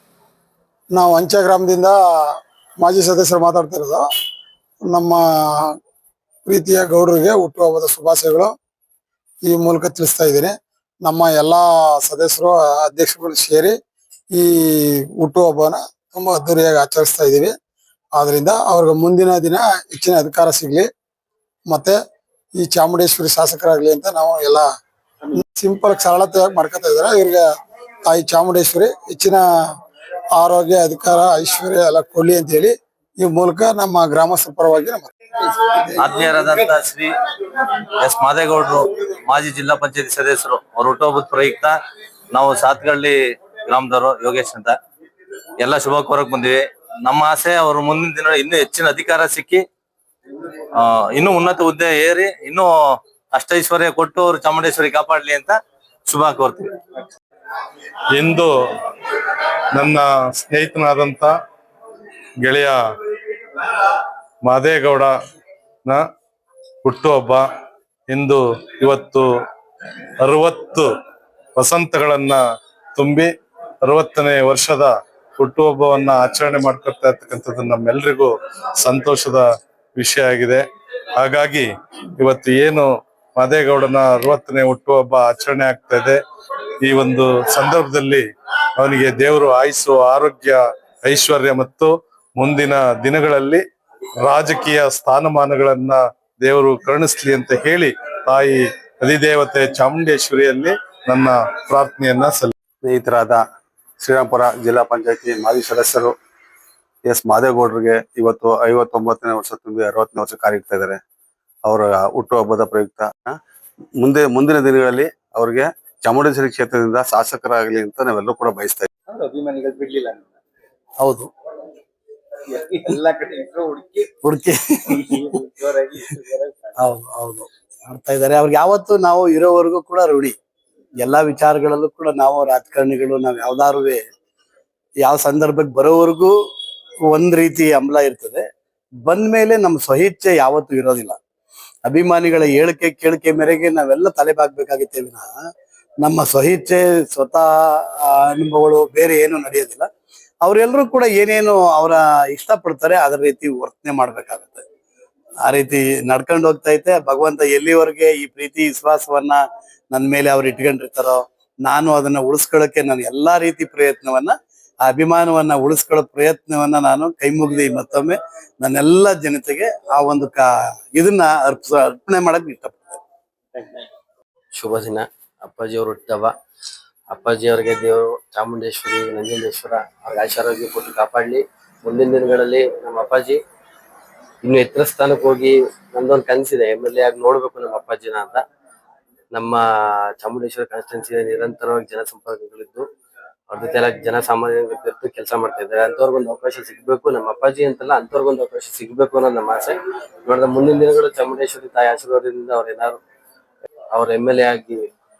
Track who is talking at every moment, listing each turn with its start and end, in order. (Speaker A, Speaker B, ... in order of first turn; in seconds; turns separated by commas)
Speaker A: 0.9-4.0, Speaker A: 4.8-5.7, Speaker A: 6.5-8.5, Speaker A: 9.4-13.8, Speaker A: 14.3-17.5, Speaker A: 18.1-20.9, Speaker A: 21.7-22.0, Speaker A: 22.6-24.7, Speaker A: 25.3-27.5, Speaker A: 28.0-29.4, Speaker A: 30.4-35.1, Speaker B: 35.9-41.8, Speaker B: 42.3-43.1, Speaker B: 43.7-44.8, Speaker B: 45.6-49.6, Speaker B: 50.7-52.7, Speaker B: 53.3-56.8, Speaker C: 58.1-61.3, Speaker C: 62.4-65.2, Speaker C: 66.8-67.5, Speaker C: 68.1-69.3, Speaker C: 70.2-70.9, Speaker C: 71.6-72.4, Speaker C: 73.0-73.3, Speaker C: 73.8-79.5, Speaker C: 80.0-80.6, Speaker C: 81.2-86.2, Speaker C: 86.8-88.2, Speaker C: 88.8-93.6, Speaker C: 94.2-102.5, Speaker D: 102.8-103.4, Speaker D: 104.0-106.2, Speaker D: 107.0-111.0, Speaker D: 111.7-113.4, Speaker D: 114.0-118.9, Speaker E: 119.1-120.2, Speaker F: 121.0-121.3, Speaker E: 122.9-124.0, Speaker F: 124.2-125.3, Speaker E: 125.1-126.7, Speaker F: 126.8-130.3, Speaker F: 131.0-134.1, Speaker F: 135.0-136.3, Speaker F: 137.1-138.5, Speaker F: 139.0-141.2, Speaker F: 141.8-145.3, Speaker F: 146.0-149.9, Speaker F: 150.4-154.6, Speaker F: 155.4-173.0, Speaker G: 174.5-176.3, Speaker G: 177.1-183.4, Speaker G: 184.4-188.4, Speaker G: 189.3-189.6, Speaker G: 190.2-192.9, Speaker G: 193.5-203.0, Speaker G: 203.9-204.9